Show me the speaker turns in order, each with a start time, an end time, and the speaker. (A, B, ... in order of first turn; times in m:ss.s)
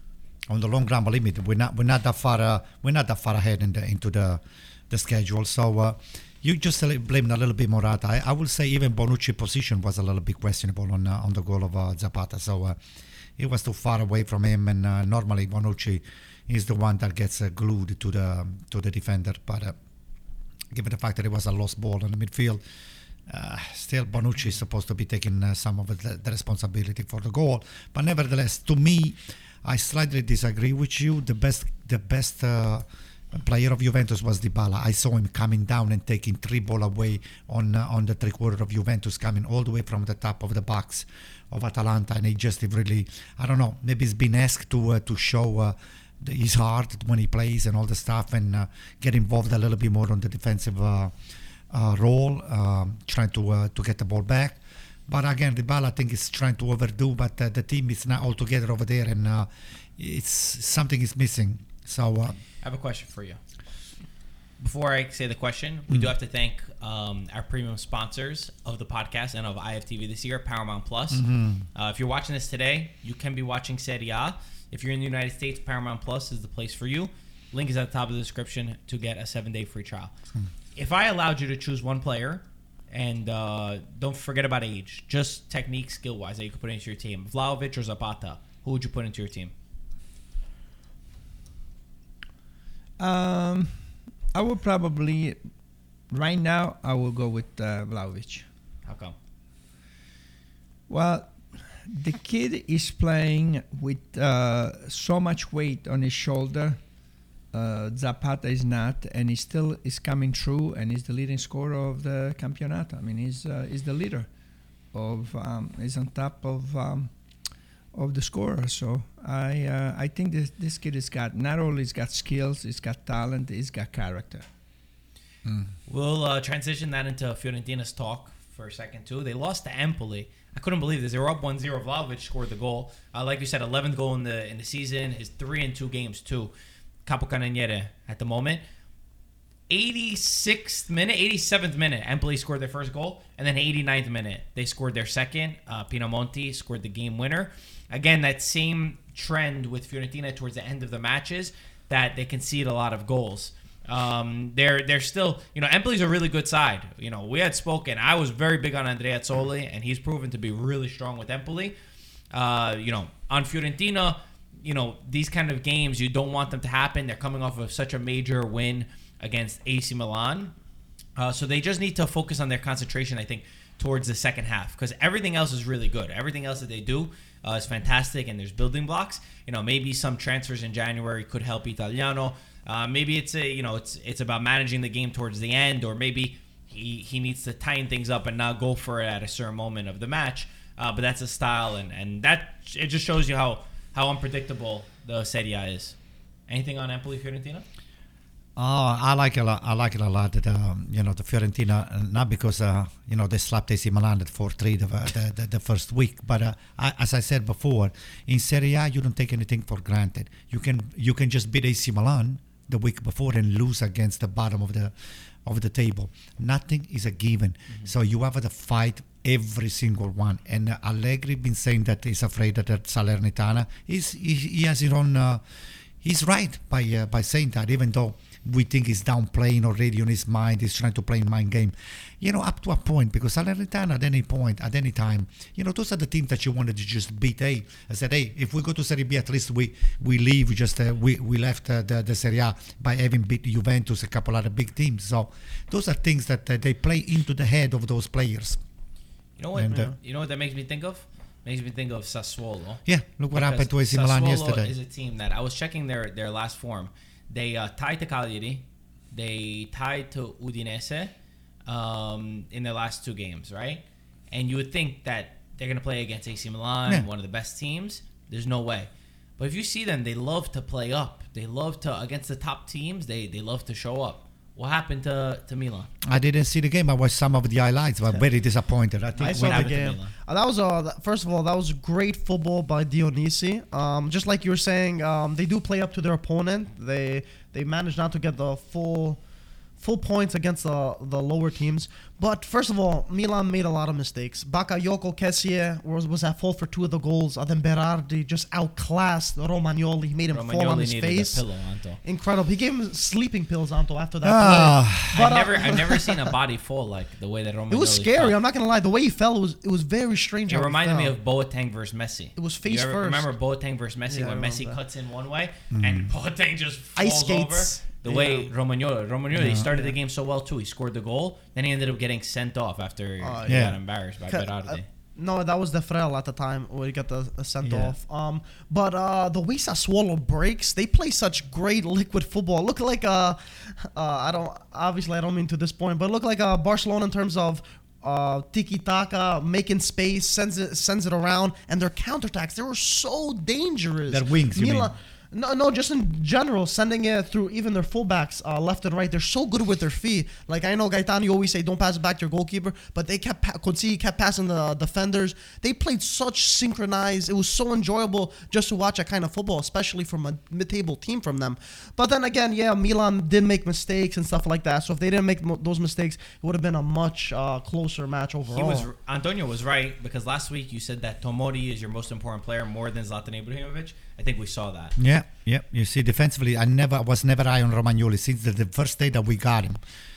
0:00.5-0:12.8 A
0:13.4-0:19.8 A
0:20.7-0:22.6 A
0:23.3-0:51.1 A
0:51.7-1:02.4 A
1:02.6-1:03.4 B
1:04.6-1:20.1 B
1:11.1-1:11.7 A
1:20.8-1:29.5 B
1:33.0-1:33.8 C
1:34.3-1:35.4 C
1:36.1-1:38.4 C
1:38.9-1:39.2 B
1:40.9-1:46.8 C
1:47.5-1:54.3 C
1:54.9-1:57.1 C
1:57.9-2:04.4 C
2:05.9-2:16.5 B
2:17.1-2:18.6 B
2:19.7-2:41.8 B
2:42.3-2:50.5 B
2:51.2-3:16.0 B
3:16.5-3:17.6 B
3:18.6-3:34.9 A
3:35.4-3:45.4 A
3:46.0-4:08.6 A
4:09.4-4:21.1 B
4:09.6-4:09.9 A
4:12.8-4:14.7 A
4:21.7-4:35.9 B
4:36.0-4:40.0 A
4:39.2-4:40.2 B
4:39.2-4:49.2 D
4:49.8-5:01.4 D
5:00.3-5:02.0 B
5:02.0-5:06.2 D
5:04.2-5:05.4 A
5:05.1-5:08.4 B
5:07.7-5:11.2 D
5:10.5-5:24.9 B
5:12.4-5:13.3 D
5:14.1-5:14.8 D
5:15.7-5:16.1 A
5:17.0-5:18.5 D
5:19.3-5:19.7 A
5:19.5-5:20.0 D
5:23.2-5:23.8 D
5:23.5-5:23.8 A
5:24.3-6:08.9 D
5:27.6-5:28.0 A
5:44.1-5:44.9 A
6:08.5-6:15.0 B
6:15.0-6:19.8 A